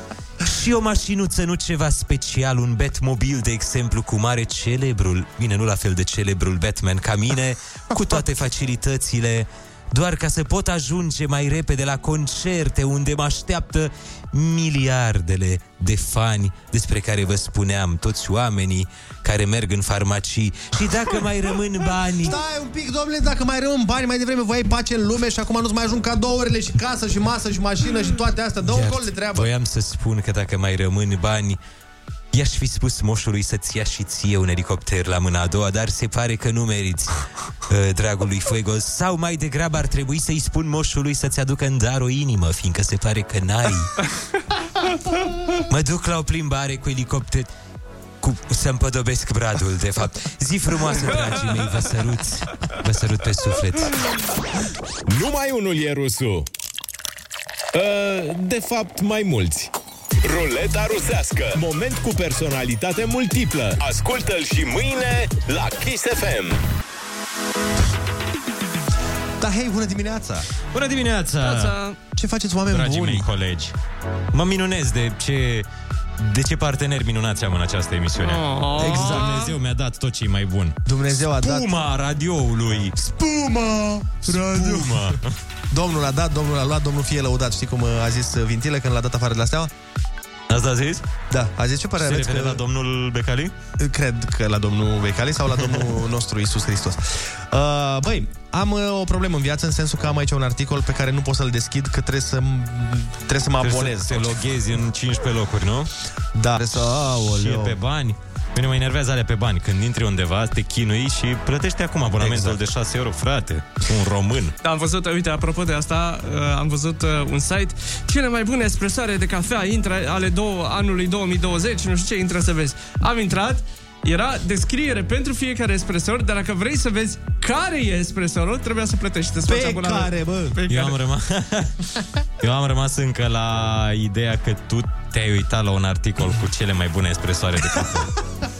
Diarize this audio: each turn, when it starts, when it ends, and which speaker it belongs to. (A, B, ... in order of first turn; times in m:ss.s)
0:00.4-0:22.4 A
0:22.2-0:29.5 B
0:28.7-0:31.6 A
0:32.3-0:43.9 A
0:45.7-0:47.5 A
0:48.2-0:53.9 A
0:55.0-0:56.5 C
0:57.7-0:59.7 C
1:00.2-1:01.6 D
1:01.5-1:03.8 C
1:03.8-1:06.6 D
1:09.4-1:10.5 B
1:10.7-1:11.8 E
1:11.4-1:12.0 F
1:12.1-1:13.2 B
1:12.7-1:13.7 E
1:14.3-1:15.6 E
1:16.2-1:22.9 E
1:18.2-1:19.5 F
1:18.8-1:19.5 B
1:20.8-1:21.7 B
1:23.0-1:25.2 B
1:24.2-1:25.3 E
1:25.7-1:29.7 B
1:30.5-1:31.0 E
1:31.3-1:32.6 B
1:32.0-1:33.5 E
1:33.8-1:44.4 B
1:43.6-1:45.9 E
1:46.3-1:47.8 B
1:47.3-1:54.5 E
1:52.2-1:52.6 B
1:54.6-2:11.0 F
2:09.4-2:10.6 B
2:10.7-2:11.7 E
2:12.4-2:18.1 E